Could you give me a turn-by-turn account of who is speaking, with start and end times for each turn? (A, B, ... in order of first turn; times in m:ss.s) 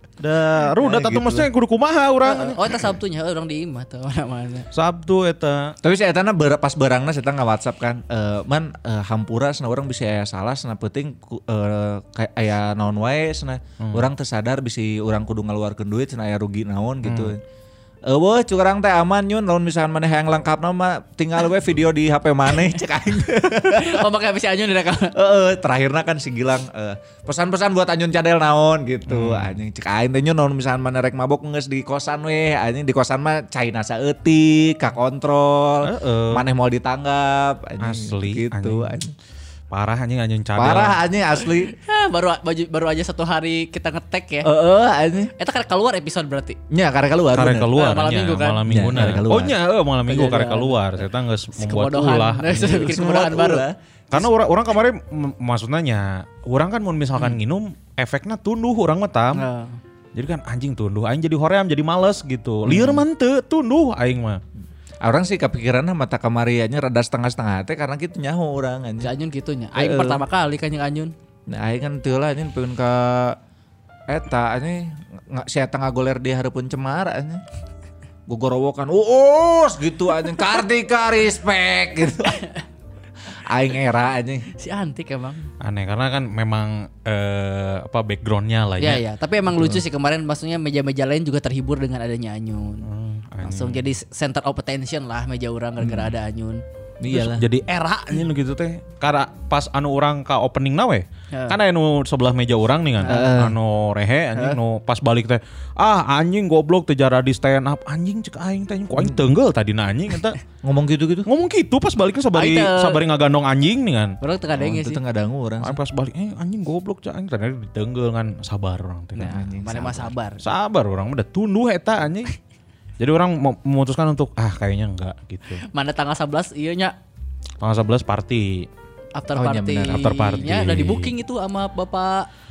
0:00.2-0:02.6 A
0:00.8-0:01.5 B
0:02.2-0:04.7 C
0:04.7-0:05.7 A
0:05.8-0:17.4 B
0:13.8-0:14.1 A
0:17.0-0:17.3 A
0:18.0-0:24.0 B
0:23.7-0:25.1 C
0:25.1-0:39.1 B
0:29.1-0:29.5 A
0:35.8-0:36.4 A
0:37.8-0:39.0 A
0:39.7-0:41.0 A
0:40.6-0:41.7 B
0:41.7-0:44.5 C
0:44.4-0:45.3 B
0:45.4-0:46.6 C
0:46.7-0:47.7 B
0:47.3-0:52.9 A
0:47.7-0:48.6 C
0:48.7-0:49.5 B
0:50.1-0:51.0 C
0:51.6-0:53.6 C
0:52.6-0:54.3 B
0:54.1-0:59.4 A
0:59.3-0:59.8 C
1:00.1-1:04.4 A
1:02.7-1:03.0 B
1:05.0-1:09.1 B
1:09.0-1:11.1 C
1:09.7-1:10.2 B
1:11.5-1:13.4 B
1:14.1-1:17.4 B
1:18.3-1:22.4 B
1:23.3-1:24.5 B
1:24.5-1:25.5 C
1:25.6-1:29.0 A
1:28.8-1:32.8 C
1:32.8-1:33.8 A
1:33.4-1:36.6 C
1:35.8-1:36.1 B
1:37.0-1:37.4 B
1:37.1-1:50.4 A
1:41.3-1:41.6 C
1:43.0-1:43.3 C
1:43.1-1:43.6 B
1:50.6-1:51.3 B
1:51.2-1:54.2 A
1:52.3-1:53.0 C
1:54.2-1:55.0 C
1:54.5-1:55.8 B
1:55.6-1:59.4 A
1:59.2-2:00.1 B
1:59.2-2:00.4 C
2:00.4-2:02.3 A
2:03.0-2:05.6 A
2:05.7-2:06.9 C
2:07.6-2:08.7 A
2:09.1-2:12.3 C
2:09.3-2:10.1 B
2:09.8-2:11.1 A